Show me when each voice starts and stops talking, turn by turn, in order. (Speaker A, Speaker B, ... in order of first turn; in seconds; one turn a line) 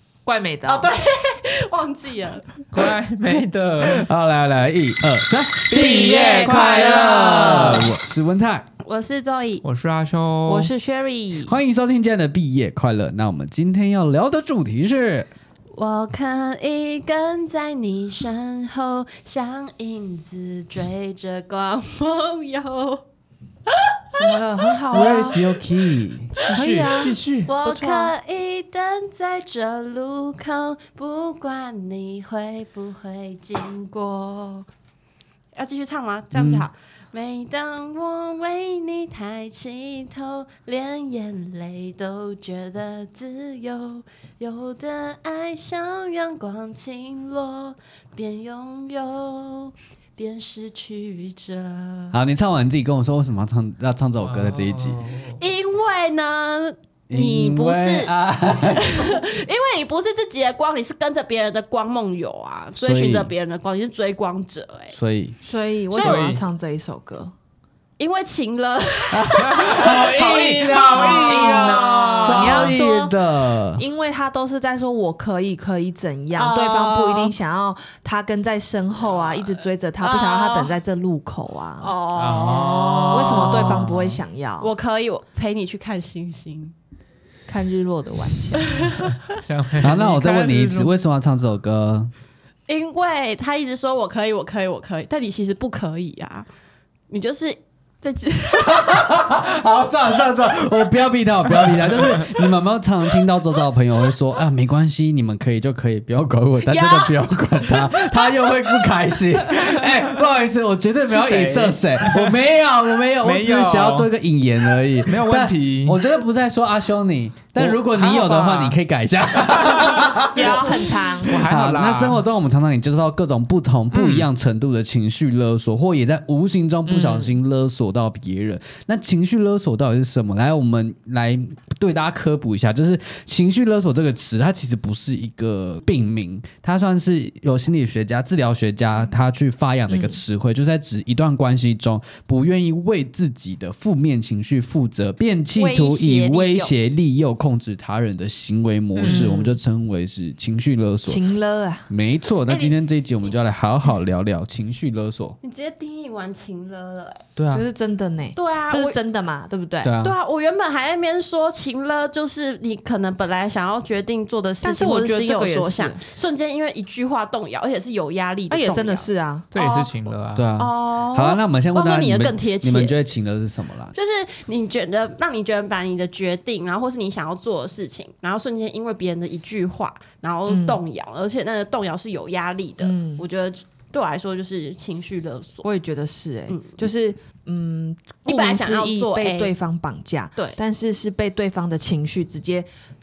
Speaker A: 0.2-0.9
Speaker B: 0.7-2.6
Speaker C: 2.7-4.1
Speaker D: 3.8-8.7
Speaker B: 5.7-7.9
Speaker C: 5.8-7.3
Speaker B: 8.8-9.6
Speaker C: 9.6-10.7
Speaker B: 10.5-11.5
Speaker A: 10.6-11.3
Speaker D: 11.4-15.3
Speaker B: 15.7-23.0
Speaker B: 23.7-25.4
Speaker A: 24.1-25.4
Speaker D: 24.9-26.4
Speaker C: 26.4-27.5
Speaker A: 26.5-28.1
Speaker B: 27.4-34.6
Speaker B: 35.5-52.2
Speaker D: 36.3-36.6
Speaker D: 52.1-55.0
Speaker C: 54.2-55.4
Speaker B: 55.4-65.0
Speaker D: 57.1-59.0
Speaker D: 62.8-63.3
Speaker D: 64.9-65.4
Speaker A: 65.4-67.3
Speaker C: 65.9-66.4
Speaker B: 65.9-66.3
Speaker B: 68.0-72.1
Speaker D: 69.1-71.4
Speaker C: 69.5-72.8
Speaker A: 69.8-73.2
Speaker D: 72.2-73.8
Speaker A: 73.7-82.0
Speaker B: 76.3-77.3
Speaker B: 80.0-80.7
Speaker B: 81.8-83.8
Speaker C: 82.2-84.2
Speaker A: 83.1-84.7
Speaker B: 84.6-86.7
Speaker A: 87.5-88.8
Speaker B: 88.6-89.1
Speaker C: 89.3-90.9
Speaker D: 89.8-92.1
Speaker B: 92.7-96.5
Speaker B: 97.1-99.2
Speaker D: 98.7-120.7
Speaker B: 106.7-107.2
Speaker B: 107.7-108.5
Speaker C: 111.1-112.4
Speaker C: 113.2-114.1
Speaker C: 115.0-116.0
Speaker C: 117.6-118.8
Speaker C: 119.5-120.2
Speaker A: 120.2-121.4
Speaker B: 120.3-120.8
Speaker C: 121.2-122.2
Speaker D: 121.3-151.2
Speaker C: 123.9-124.3
Speaker A: 126.8-127.4
Speaker A: 139.9-140.2
Speaker B: 145.6-146.7
Speaker C: 148.9-149.3
Speaker A: 149.0-149.6
Speaker A: 151.0-151.9
Speaker D: 151.9-155.4
Speaker B: 152.5-152.8
Speaker B: 155.4-157.2
Speaker D: 157.3-157.6
Speaker A: 157.5-159.9
Speaker B: 158.3-159.0
Speaker D: 159.8-160.1
Speaker B: 160.0-169.9
Speaker A: 164.6-166.0
Speaker A: 168.5-169.5
Speaker C: 169.5-170.5
Speaker D: 170.3-173.9
Speaker B: 170.6-172.9
Speaker B: 173.9-185.7
Speaker A: 180.4-180.8
Speaker A: 182.8-183.2
Speaker A: 185.6-192.7
Speaker B: 186.5-186.8
Speaker B: 188.2-189.5